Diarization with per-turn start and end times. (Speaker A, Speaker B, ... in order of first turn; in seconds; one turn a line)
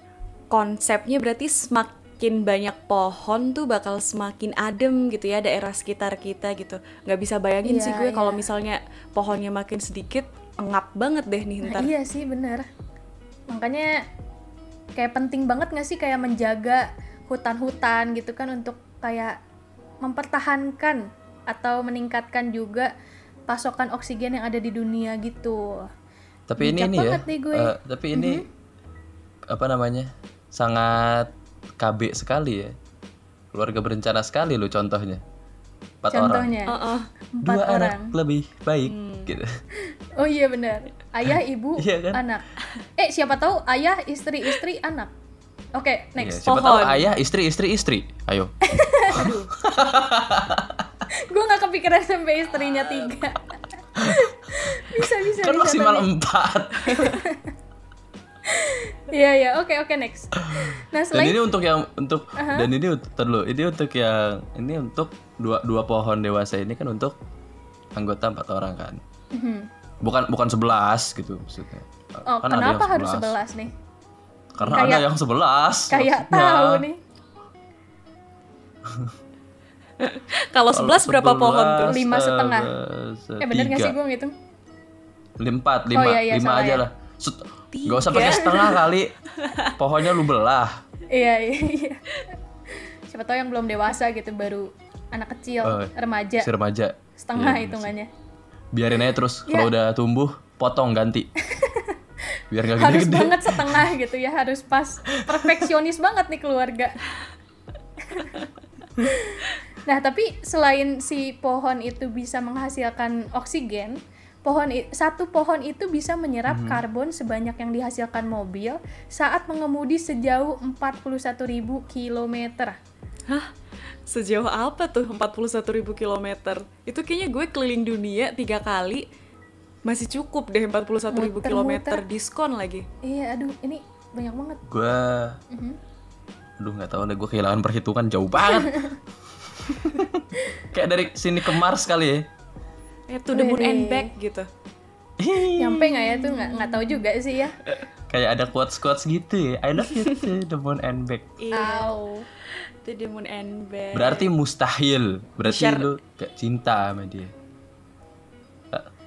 Speaker A: 0.5-11.9
Speaker B: 7.6-8.4
Speaker B: 11.6-12.7
Speaker B: 13.5-13.9
Speaker B: 14.9-19.4
Speaker B: 20.0-22.9
Speaker B: 23.5-25.9
Speaker C: 26.5-28.4
Speaker B: 26.6-28.4
Speaker C: 29.5-32.7
Speaker C: 33.5-35.2
Speaker C: 36.0-36.6
Speaker B: 36.1-36.8
Speaker A: 36.7-37.1
Speaker B: 37.4-38.1
Speaker C: 37.4-39.6
Speaker A: 38.9-39.3
Speaker B: 39.9-42.4
Speaker C: 41.8-42.2
Speaker B: 43.0-45.1
Speaker B: 45.8-46.6
Speaker C: 46.2-48.5
Speaker A: 46.5-47.1
Speaker B: 48.6-49.3
Speaker A: 49.1-49.5
Speaker C: 49.1-50.9
Speaker B: 51.3-56.1
Speaker C: 54.0-54.3
Speaker C: 54.8-57.2
Speaker B: 56.8-57.5
Speaker B: 58.5-61.4
Speaker C: 60.4-67.1
Speaker B: 62.4-62.7
Speaker C: 68.0-69.0
Speaker B: 69.3-69.7
Speaker C: 70.0-73.3
Speaker B: 72.3-73.7
Speaker C: 74.5-76.8
Speaker B: 74.6-75.1
Speaker B: 75.9-77.0
Speaker C: 78.8-79.1
Speaker A: 80.0-82.0
Speaker C: 80.7-84.0
Speaker B: 81.8-82.7
Speaker B: 83.4-84.3
Speaker C: 85.4-89.1
Speaker B: 85.9-86.8
Speaker A: 87.7-88.8
Speaker B: 88.5-88.7
Speaker A: 89.4-89.7
Speaker C: 89.7-90.8
Speaker B: 91.1-92.2
Speaker B: 92.7-96.5
Speaker C: 95.6-97.9
Speaker B: 97.2-98.1
Speaker C: 98.7-101.3
Speaker B: 101.5-102.0
Speaker C: 102.5-103.9
Speaker B: 102.7-107.0
Speaker B: 108.1-108.4
Speaker B: 109.0-122.8
Speaker C: 116.5-116.8
Speaker A: 124.1-129.1
Speaker A: 129.8-132.8
Speaker B: 131.1-132.0
Speaker B: 133.0-134.6
Speaker C: 134.7-135.4
Speaker B: 135.5-135.8
Speaker C: 136.6-138.9
Speaker B: 138.5-138.9
Speaker C: 139.5-142.2
Speaker A: 143.1-144.5
Speaker B: 143.3-144.1
Speaker C: 145.2-146.2
Speaker B: 145.6-147.6
Speaker A: 146.4-147.0
Speaker C: 148.1-151.3
Speaker A: 151.4-151.9
Speaker B: 151.5-152.2
Speaker A: 152.8-154.3
Speaker C: 153.9-157.3
Speaker A: 155.4-155.9